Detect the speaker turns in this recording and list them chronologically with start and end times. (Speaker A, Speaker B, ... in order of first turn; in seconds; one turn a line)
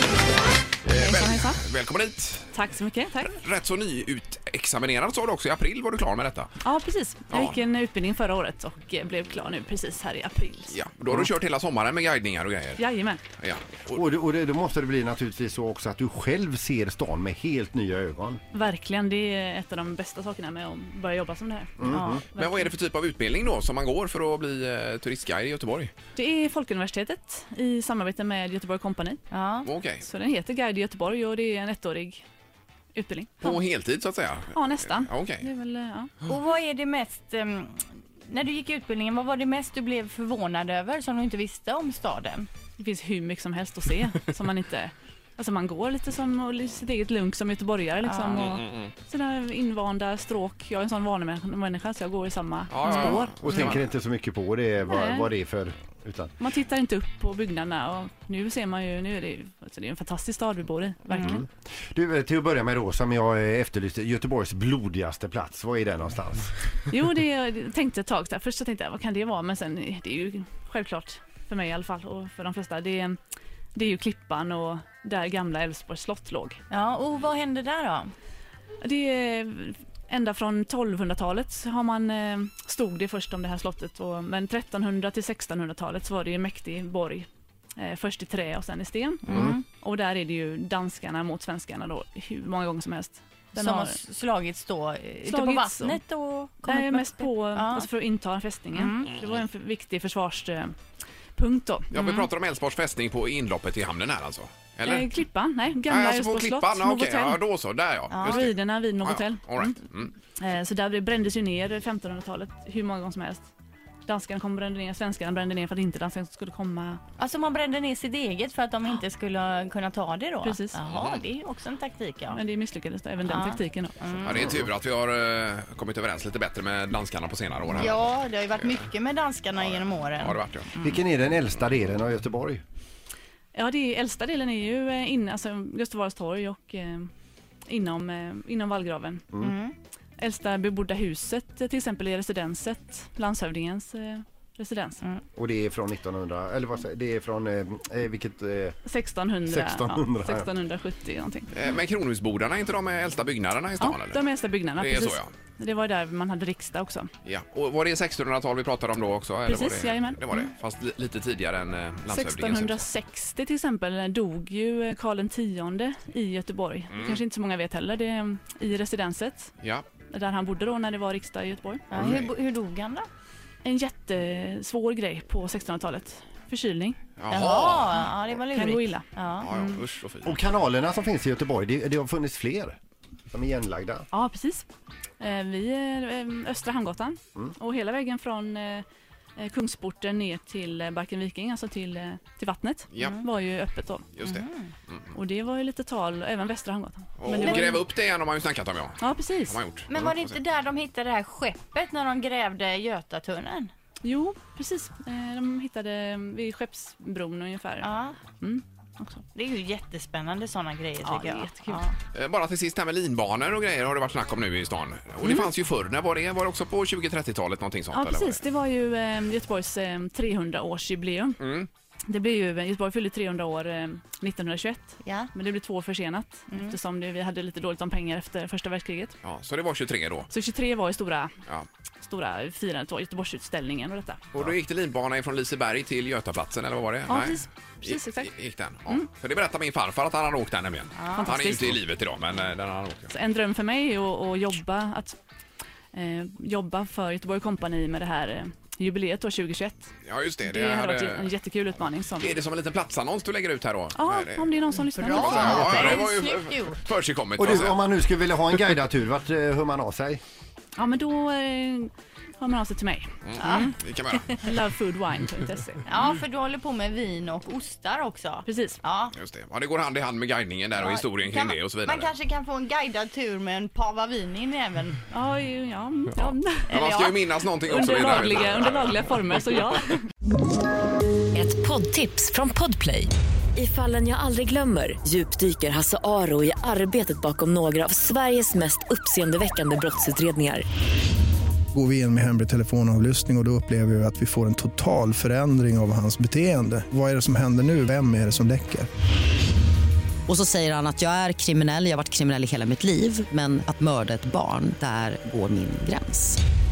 Speaker A: 0.8-2.5
Speaker B: 0.9-1.6
Speaker B: 2.5-3.4
Speaker A: 3.2-6.5
Speaker B: 6.6-10.8
Speaker A: 7.3-7.6
Speaker A: 10.7-12.8
Speaker B: 12.8-13.2
Speaker A: 13.4-14.0
Speaker C: 13.9-18.4
Speaker B: 18.5-22.7
Speaker C: 21.8-22.2
Speaker D: 21.9-22.2
Speaker A: 22.3-25.9
Speaker B: 26.1-29.2
Speaker D: 29.3-29.7
Speaker A: 29.6-30.1
Speaker B: 29.9-32.2
Speaker B: 32.9-33.6
Speaker A: 33.4-35.5
Speaker B: 34.5-36.2
Speaker D: 36.2-42.5
Speaker B: 42.8-53.5
Speaker D: 48.0-48.6
Speaker A: 48.6-48.9
Speaker A: 52.7-53.8
Speaker D: 52.9-53.8
Speaker C: 53.4-56.3
Speaker B: 54.8-55.3
Speaker B: 56.4-61.5
Speaker D: 61.1-61.4
Speaker C: 61.9-66.6
Speaker B: 66.9-73.2
Speaker B: 73.7-76.6
Speaker D: 76.7-78.1
Speaker B: 78.8-94.0
Speaker D: 89.2-89.6
Speaker D: 93.5-97.9
Speaker B: 95.2-96.0
Speaker B: 96.6-100.8
Speaker D: 98.7-99.1
Speaker B: 101.3-101.9
Speaker A: 101.9-105.1
Speaker D: 101.9-102.3
Speaker B: 104.8-107.4
Speaker A: 105.9-110.1
Speaker D: 108.1-108.5
Speaker B: 108.2-113.5
Speaker B: 114.0-117.0
Speaker D: 117.2-122.4
Speaker B: 120.4-120.8
Speaker A: 120.9-121.2
Speaker B: 122.3-124.1
Speaker D: 123.2-124.7
Speaker A: 124.2-128.8
Speaker D: 127.7-131.0
Speaker A: 129.5-130.7
Speaker C: 130.8-132.6
Speaker B: 133.5-137.1
Speaker B: 137.7-139.3
Speaker D: 139.4-139.7
Speaker B: 140.2-145.0
Speaker C: 145.3-148.8
Speaker B: 148.8-151.5
Speaker C: 149.4-150.5
Speaker A: 151.5-154.2
Speaker B: 153.8-157.1
Speaker A: 154.8-155.3
Speaker A: 157.2-162.8
Speaker B: 159.4-160.5
Speaker B: 162.1-169.5
Speaker A: 166.9-167.2
Speaker A: 169.6-169.9
Speaker B: 170.1-171.9
Speaker D: 171.9-173.1
Speaker A: 171.9-172.3
Speaker B: 173.6-177.0
Speaker A: 177.2-178.1
Speaker D: 177.3-179.5
Speaker B: 178.5-179.8
Speaker A: 179.4-180.4
Speaker C: 180.2-182.8
Speaker C: 183.3-184.1
Speaker B: 184.1-184.7
Speaker B: 185.2-188.8
Speaker B: 189.4-194.2
Speaker A: 192.9-193.2
Speaker D: 193.0-193.2
Speaker A: 194.2-195.0
Speaker D: 194.2-194.7
Speaker B: 195.1-197.9
Speaker A: 197.2-200.4
Speaker B: 199.0-199.6
Speaker D: 199.9-203.7
Speaker B: 204.0-209.2
Speaker D: 207.8-208.2
Speaker D: 209.3-211.9
Speaker B: 211.0-211.8
Speaker A: 212.1-218.4
Speaker B: 217.9-221.4
Speaker A: 221.4-221.7
Speaker B: 222.1-229.2
Speaker D: 225.0-225.3
Speaker D: 226.5-226.8
Speaker A: 229.2-230.3
Speaker B: 230.3-231.3
Speaker B: 232.0-234.3
Speaker A: 234.3-243.1
Speaker B: 237.1-238.3
Speaker D: 240.9-241.6
Speaker B: 241.1-241.8
Speaker B: 243.1-245.2
Speaker B: 245.9-249.9
Speaker A: 250.0-251.3
Speaker B: 250.4-252.4
Speaker A: 252.2-257.8
Speaker B: 253.9-256.0
Speaker D: 254.7-256.8
Speaker C: 257.4-260.2
Speaker B: 260.8-266.1
Speaker A: 263.2-264.4
Speaker D: 263.4-263.7
Speaker D: 265.9-269.1
Speaker B: 268.4-268.8
Speaker A: 269.1-272.1
Speaker D: 270.8-275.0
Speaker B: 275.1-276.8
Speaker A: 276.1-279.8
Speaker D: 276.7-277.1
Speaker B: 277.6-280.1
Speaker E: 281.3-290.6
Speaker F: 291.7-298.9
Speaker G: 300.3-306.4